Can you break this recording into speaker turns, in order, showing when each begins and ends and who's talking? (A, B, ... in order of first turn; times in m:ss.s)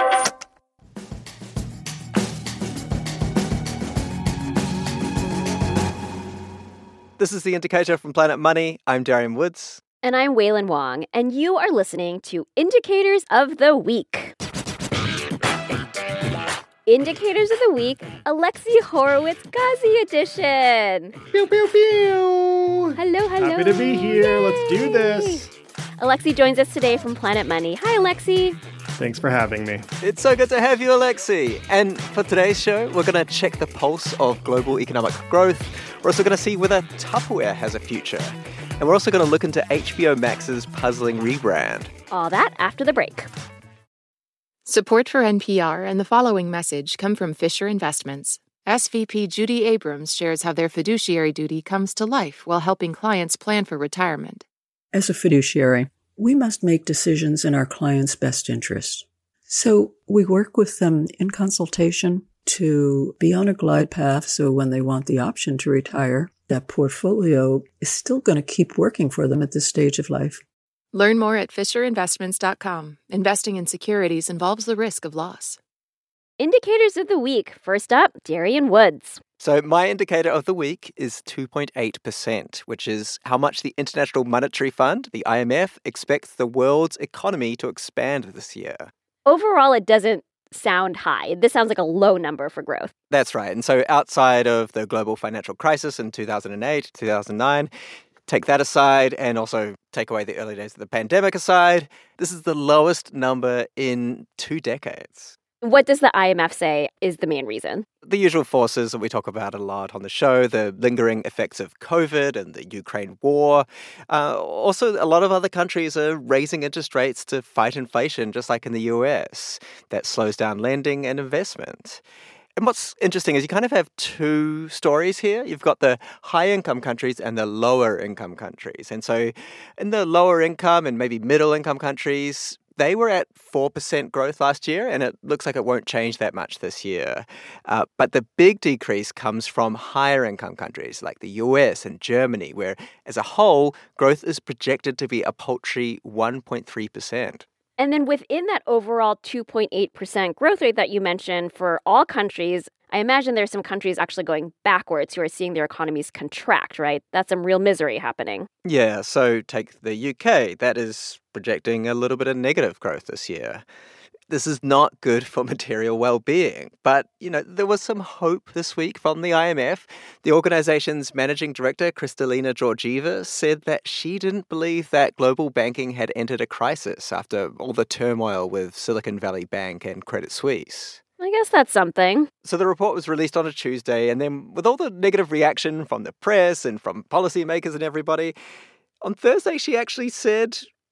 0:07.2-0:09.8 A
0:10.0-0:14.3 B
0:16.8-0:21.1 B
0:21.3-0:25.5 C
0:23.0-0:25.4 B
0:26.0-0:28.6 B
0:29.0-0:29.8 C
0:30.0-0:41.9 A
0:42.1-0:43.3 B
0:44.6-0:54.4 D
0:54.9-1:10.4 E
1:10.9-1:15.6 D
1:16.4-1:19.2 B
1:19.4-1:28.9 A
1:29.2-1:32.9 B
1:33.1-1:37.7 A
1:38.3-1:45.3 A
1:45.6-1:47.8 B
1:48.0-2:02.0 A
2:02.6-2:27.4 A
2:27.8-2:38.5 B
2:38.6-2:43.6 A
2:44.3-3:01.0 A
3:01.2-3:02.3 B
3:02.4-3:08.3 A
3:09.0-3:10.6 A